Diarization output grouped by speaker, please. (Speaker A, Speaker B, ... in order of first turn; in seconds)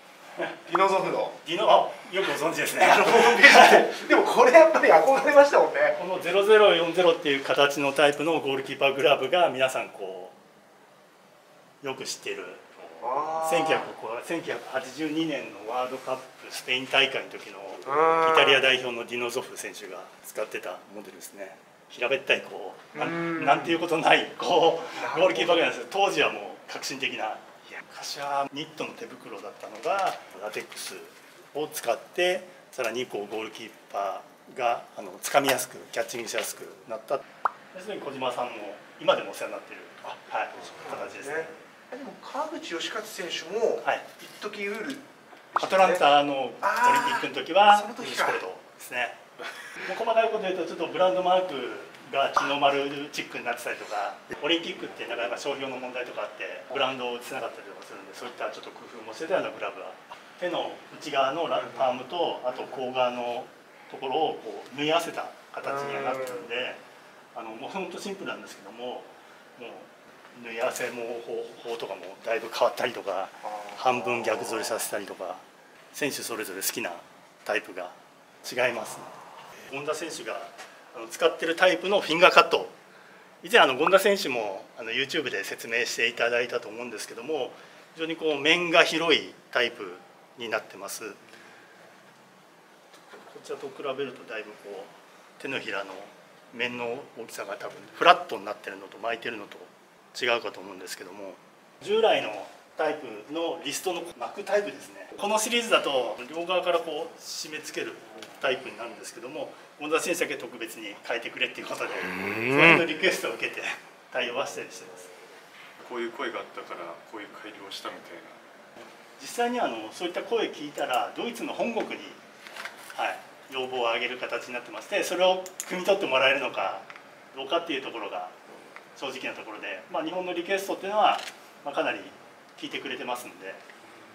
Speaker A: 0.7-1.4, 2.8-6.0, 13.0-13.8, 25.0-25.6, 40.7-46.0, 46.6-48.4
Speaker B: 1.4-3.9, 5.9-10.4, 11.8-41.6, 43.8-44.2, 45.6-49.2, 49.7-66.8, 67.3-82.8, 83.4-91.2, 92.9-115.1, 119.2-122.2, 122.9-128.4, 128.9-133.7
Speaker C: 115.8-118.4